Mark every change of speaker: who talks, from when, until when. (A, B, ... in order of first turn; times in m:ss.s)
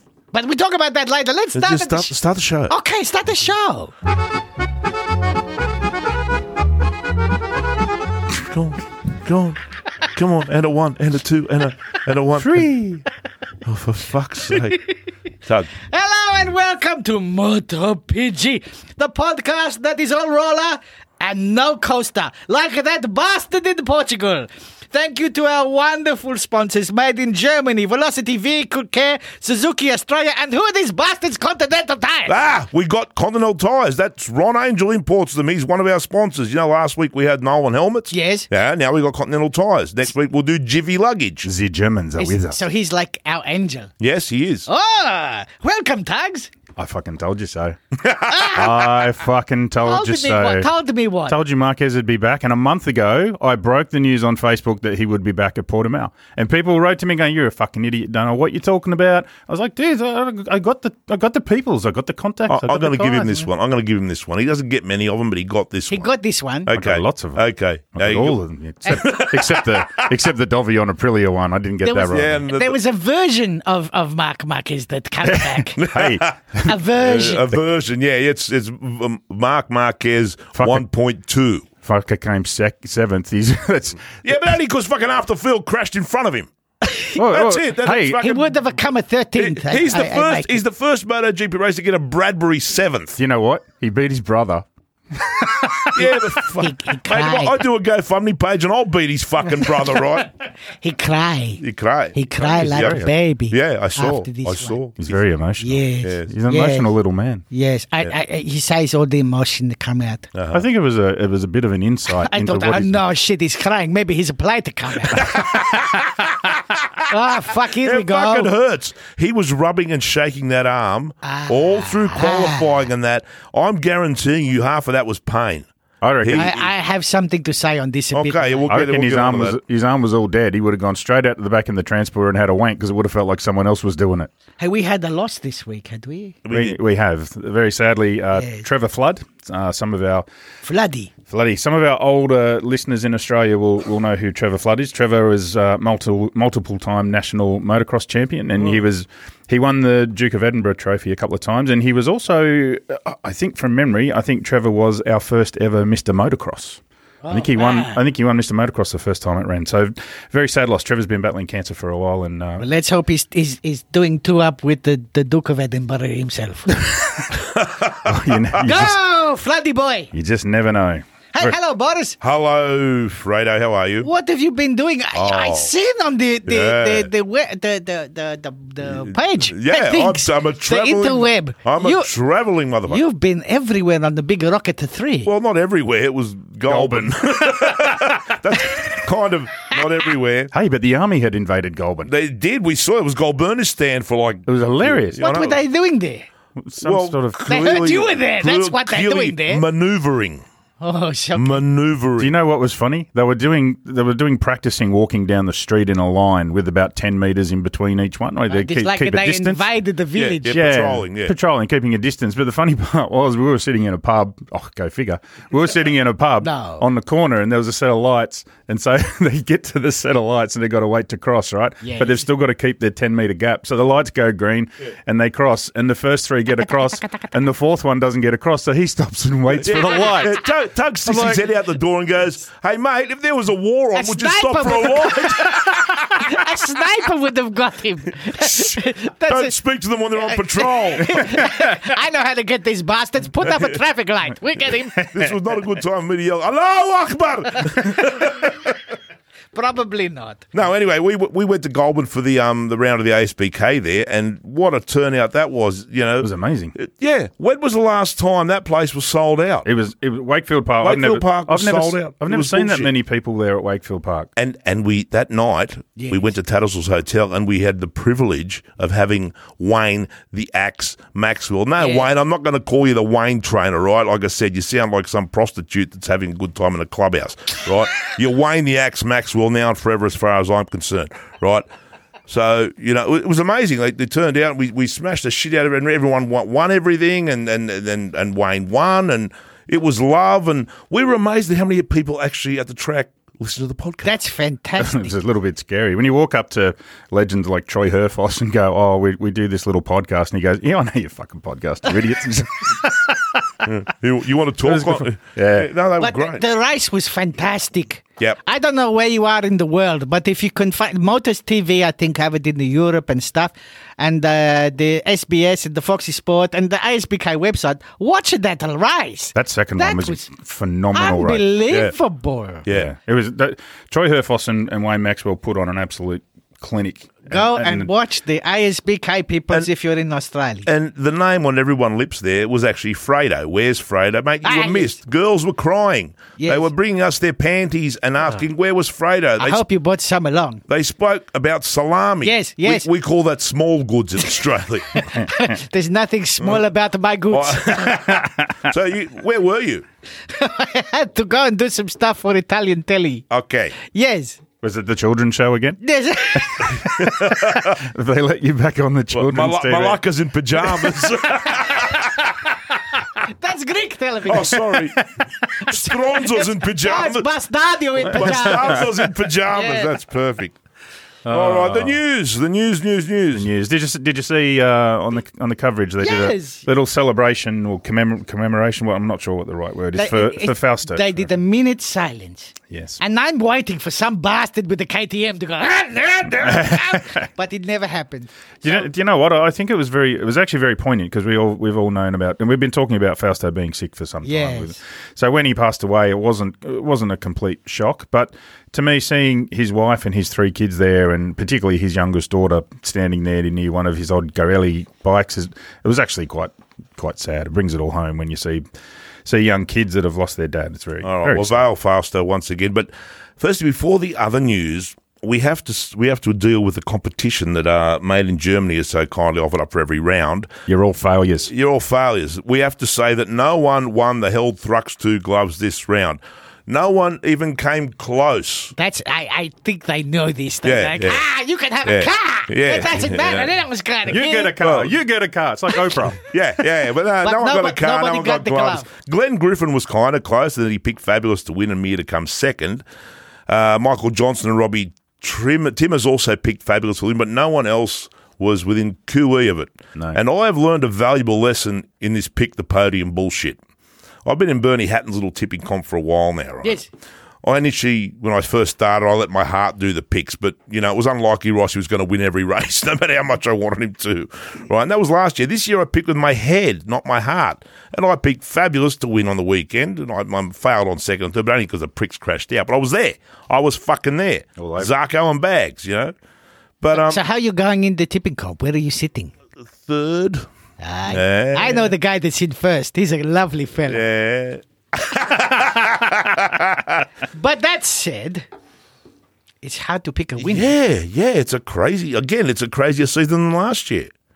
0:00.3-0:02.2 A
0:01.6-0:02.7 B
0:02.7-0:03.9 A
0:08.3-0:12.7 B
0:12.4-0:13.0 C
0:13.6-0:14.8 B
0:15.4-0:15.7 B
0:15.8-0:32.4 A
0:32.3-0:41.5 B
0:38.1-0:38.5 A
0:41.4-0:42.6 C
0:42.2-0:43.9 A
0:44.0-0:44.7 B
0:44.7-0:46.5 A
0:46.8-0:47.8 C
0:48.0-0:48.6 B
0:48.3-0:48.9 A
0:48.5-0:50.7 C
0:49.8-0:51.4 A
0:51.3-1:03.5 C
1:02.5-1:06.1 B
1:05.9-1:06.7 A
1:06.6-1:10.1 B
1:06.7-1:12.5 C
1:08.9-1:09.2 A
1:11.8-1:15.8 A
1:12.1-1:12.8 B
1:15.2-1:16.7 C
1:15.8-1:16.4 B
1:16.7-1:17.5 A
1:17.0-1:21.7 B
1:20.6-1:20.8 C
1:21.8-1:24.5 C
1:24.2-1:26.5 B
1:26.8-1:27.2 A
1:27.2-1:28.3 C
1:27.2-1:28.5 B
1:28.1-1:30.6 A
1:29.4-1:33.2 B
1:33.2-1:36.1 C
1:35.9-1:40.3 B
1:36.5-1:37.6 A
1:40.8-1:41.6 A
1:41.6-1:43.0 B
1:42.2-1:44.8 A
1:42.4-1:43.1 C
1:43.5-1:45.2 B
1:45.0-1:47.4 C
1:45.6-1:46.9 A
1:46.0-1:46.3 B
1:47.5-1:50.3 A
1:50.3-1:50.6 B
1:50.5-1:53.0 C
1:52.1-1:55.8 A
1:55.1-1:57.1 B
1:57.1-1:58.5 A
1:57.7-2:05.7 B
2:01.2-2:02.8 A
2:06.0-2:06.5 C
2:06.2-2:06.7 B
2:06.3-2:08.7 A
2:08.1-2:09.6 B
2:08.7-2:14.3 C
2:14.6-2:16.4 A
2:16.4-2:16.8 B
2:16.5-2:20.3 C
2:18.4-2:18.6 A
2:20.6-2:21.1 A
2:21.3-2:42.6 C
2:37.2-2:38.0 A
2:42.6-2:46.9 A
2:46.7-2:47.3 C
2:47.3-2:48.9 B
2:48.0-2:49.0 C
2:48.6-2:50.1 A
2:50.1-2:51.6 C
2:51.3-2:52.2 A
2:52.2-2:54.1 B
2:54.0-3:02.1 A
2:55.1-2:55.7 B
2:56.5-2:57.1 B
2:58.8-3:03.0 B
3:02.9-3:05.3 A
3:05.2-3:10.5 B
3:06.7-3:08.0 C
3:10.5-3:12.1 C
3:12.1-3:15.6 B
3:14.5-3:15.3 C
3:15.2-3:16.3 A
3:16.6-3:17.7 C
3:16.8-3:20.4 B
3:17.5-3:19.6 A
3:20.8-3:21.6 A
3:21.4-3:22.4 B
3:22.2-3:29.6 C
3:28.5-3:30.6 A
3:30.1-3:31.4 B
3:30.5-3:50.4 C
3:36.4-3:36.8 A
3:41.8-3:42.2 A
3:49.5-3:56.5 B
3:49.8-3:50.1 A
3:51.0-3:51.5 C
3:53.9-3:59.6 A
3:59.3-4:01.2 B
4:00.2-4:05.2 A
4:01.4-4:01.6 C
4:03.5-4:03.8 B
4:05.1-4:08.7 B
4:09.5-4:10.5 A
4:10.5-4:19.7 B
4:16.2-4:16.8 C
4:19.6-4:24.3 C
4:20.8-4:22.9 B
4:24.4-4:41.7 B
4:26.0-4:26.3 A
4:31.8-4:32.1 A
4:42.3-4:54.1 B
4:54.0-4:55.1 A
4:54.8-5:03.7 C
5:03.6-5:06.4 B
5:04.6-5:05.7 C
5:06.0-5:20.2 A
5:19.4-5:21.4 C
5:20.9-5:22.6 A
5:21.7-5:21.9 B
5:22.6-5:22.9 B
5:22.7-5:27.9 C
5:27.3-5:30.7 A
5:30.7-5:39.6 B
5:34.4-5:35.0 A
5:36.4-5:36.7 A
5:39.4-5:40.6 A
5:40.7-5:45.0 B
5:42.2-5:42.9 A
5:44.9-5:48.0 A
5:46.4-5:46.6 B
5:47.3-5:49.8 B
5:47.9-5:48.7 C
5:50.3-5:53.2 A
5:53.3-5:53.8 B
5:53.9-5:54.4 A
5:54.6-5:55.8 C
5:55.8-5:56.8 A
5:56.4-6:00.0 C
5:56.8-5:57.8 B
5:59.1-6:03.2 B
6:03.3-6:04.8 A
6:04.2-6:05.0 B
6:05.6-6:07.3 B
6:05.6-6:10.0 A
6:08.0-6:08.9 C
6:08.0-6:10.6 B
6:11.2-6:12.0 C
6:11.3-6:13.5 B
6:13.3-6:21.3 C
6:16.0-6:16.6 A
6:20.0-6:28.8 A
6:22.7-6:23.0 C
6:26.4-6:27.3 C
6:28.6-6:48.6 C
6:34.2-6:34.8 A
6:49.2-6:51.6 C
6:51.0-7:00.5 B
7:00.7-7:01.5 C
7:01.5-7:08.7 B
7:08.8-7:14.6 A
7:10.6-7:11.2 B
7:11.8-7:13.5 B
7:14.1-7:16.2 C
7:14.6-7:15.0 B
7:16.3-7:22.8 B
7:17.2-7:18.9 A
7:23.5-7:33.6 B
7:34.2-7:36.8 B
7:37.4-7:56.2 B
7:54.6-7:54.9 C
7:56.8-7:57.2 B
7:56.9-7:59.3 A
7:59.8-8:00.5 B
8:00.8-8:04.1 A
8:01.1-8:01.9 B
8:03.9-8:07.0 B
8:07.3-8:08.4 A
8:09.6-8:10.7 A
8:10.4-8:14.1 B